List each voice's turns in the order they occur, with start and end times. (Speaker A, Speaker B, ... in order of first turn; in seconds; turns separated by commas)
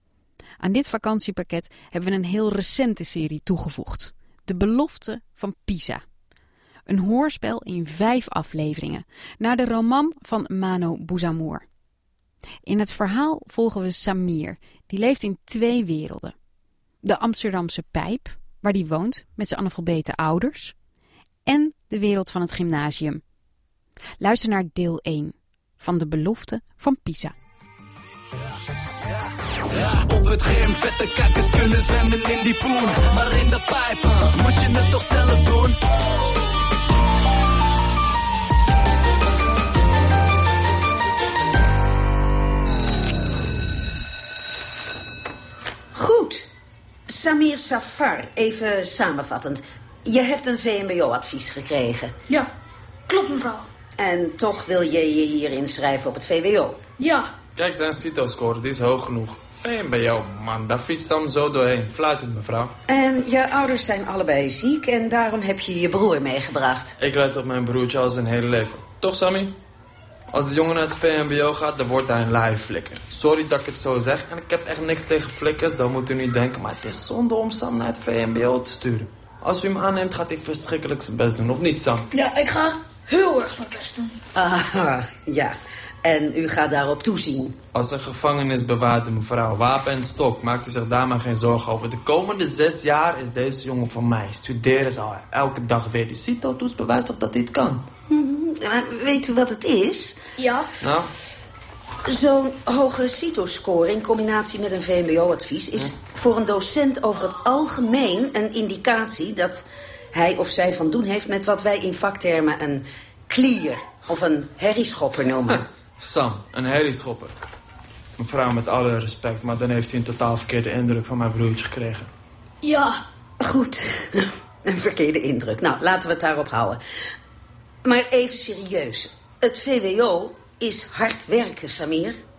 Speaker A: 0.6-6.0, Speaker A: 6.9-11.6, Speaker A: 12.6-16.3, Speaker A: 17.0-20.7, Speaker A: 21.4-23.2, Speaker A: 24.2-27.3, Speaker B: 29.7-35.8, Speaker C: 45.9-46.5, Speaker C: 47.1-52.1, Speaker D: 53.1-53.7, Speaker C: 54.0-56.8, Speaker D: 57.0-57.3, Speaker E: 57.5-62.8, Speaker C: 62.9-66.9, Speaker E: 67.0-69.6, Speaker E: 70.3-82.1, Speaker D: 82.1-84.2, Speaker C: 84.3-87.6, Speaker E: 87.7-97.9, Speaker C: 98.1-100.2, Speaker D: 100.4-100.7, Speaker E: 100.8-101.1, Speaker C: 102.0-115.7, Speaker E: 115.5-117.4, Speaker E: 118.2-122.1, Speaker D: 122.6-123.0, Speaker C: 123.4-126.8, Speaker C: 127.8-132.2